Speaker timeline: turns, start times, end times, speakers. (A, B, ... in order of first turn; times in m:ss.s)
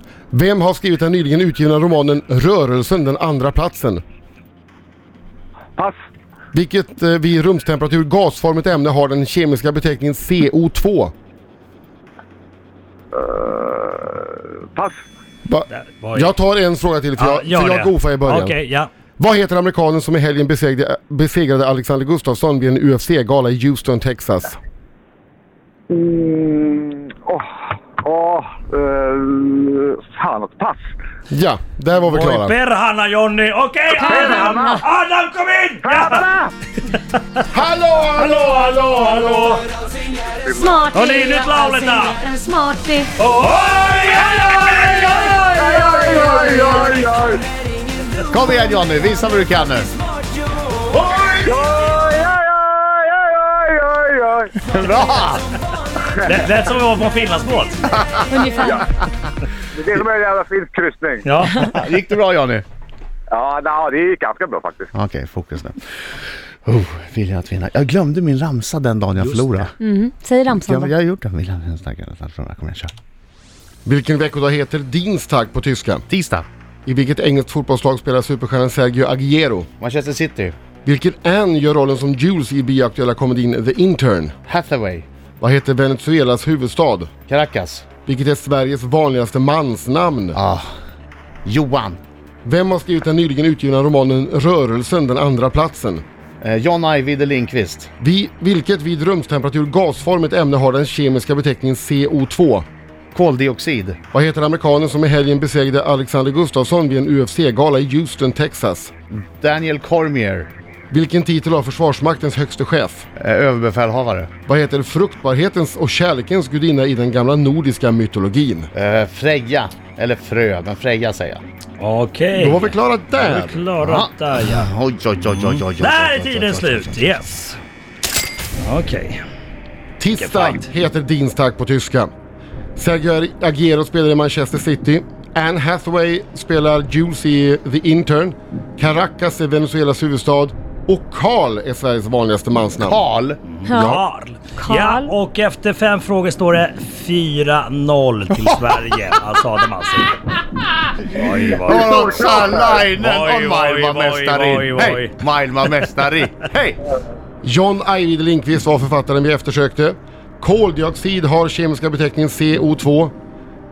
0:00.3-0:04.0 A
0:06.5-0:11.1 A
0:13.1-0:15.0 B
0:15.5-0:18.6 A
0:15.7-0:16.3 C
0:17.2-0:18.9 C
0:19.2-0:24.6 A
0:25.9-0:30.9 B
0:31.3-0:32.6 A
0:32.0-0:36.2 C
0:34.0-0:34.8 B
0:34.0-0:34.7 D
0:35.8-0:36.5 B
0:36.8-0:37.5 C
0:37.5-0:39.6 A
0:38.2-0:39.7 C
0:40.4-0:40.8 B
0:40.5-0:43.1 D
0:40.9-0:42.2 C
0:43.2-0:46.6 C
0:44.4-0:47.4 B
0:48.2-0:49.9 E
0:51.2-0:54.7 B
0:54.6-0:55.5 E
0:56.2-0:58.0 C
0:58.0-0:58.4 E
0:58.3-0:58.8 D
0:58.6-0:58.9 B
0:59.7-1:01.3 B
1:01.2-1:01.7 C
1:01.6-1:02.6 E
1:03.3-1:04.9 B
1:05.0-1:05.8 E
1:06.7-1:09.7 E
1:09.2-1:09.7 C
1:09.8-1:10.9 D
1:10.5-1:12.9 E
1:13.9-1:16.0 A
1:16.1-1:16.5 E
1:16.9-1:19.7 A
1:19.8-1:20.6 E
1:20.8-1:24.3 A
1:24.5-1:25.1 E
1:25.4-1:27.1 A
1:27.3-1:27.9 E
1:28.0-1:30.4 A
1:30.3-1:30.7 E
1:31.4-1:32.0 E
1:32.4-1:36.0 A
1:36.4-1:37.9 E
1:38.0-1:42.6 A
1:43.1-1:44.0 E
1:44.1-1:48.9 A
1:49.1-1:50.5 E
1:50.9-1:53.1 A
1:53.2-1:54.3 E
1:54.5-1:58.7 A
1:58.7-2:01.4 E
2:01.8-2:07.6 C
2:02.4-2:03.6 A
2:03.8-2:07.1 E
2:08.6-2:09.2 C
2:10.0-2:12.1 A
2:10.2-2:10.7 C
2:12.8-2:23.0 A
2:22.8-2:23.4 E
2:23.4-2:30.2 C
2:23.7-2:24.0 D
2:23.7-2:24.0 A
2:24.6-2:25.1 D
2:28.4-2:28.7 E
2:30.8-2:36.8 E
2:31.1-2:36.0 C
2:31.4-2:32.8 B
2:37.4-2:43.1 A